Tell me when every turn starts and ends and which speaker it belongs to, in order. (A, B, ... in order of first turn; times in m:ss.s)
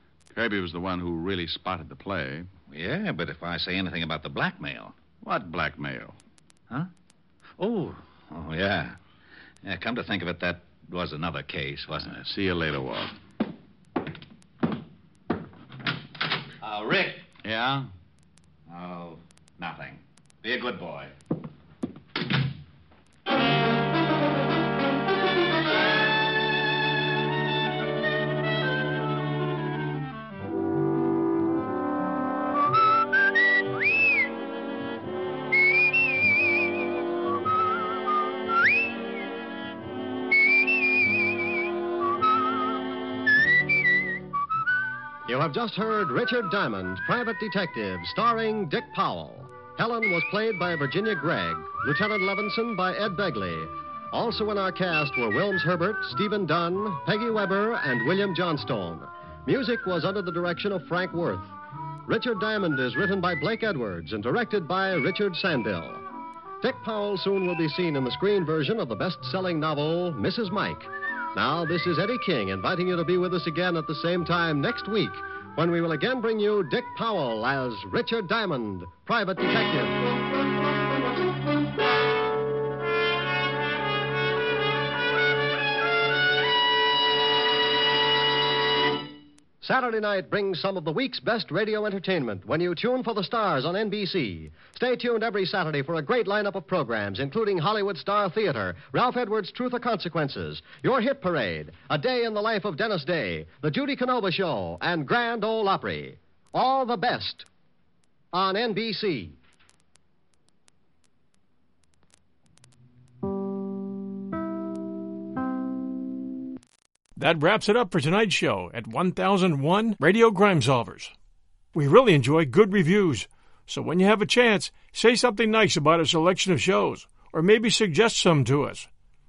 0:00.3-0:02.5 A
0:02.7-0:04.9 B
0:05.2-0:06.2 A
0:07.6-0:09.0 B
0:09.6-0:12.1 B
0:12.0-0:13.2 A
0:16.6-0:17.2 B
0:17.4-0:17.9 A
0:18.7-0:21.1 B
0:45.2-1:01.5 C
1:02.0-1:06.0 C
1:06.6-1:20.0 C
1:29.6-1:47.4 C
1:48.3-1:49.4 C
1:57.2-2:01.1 D
2:01.7-2:08.9 D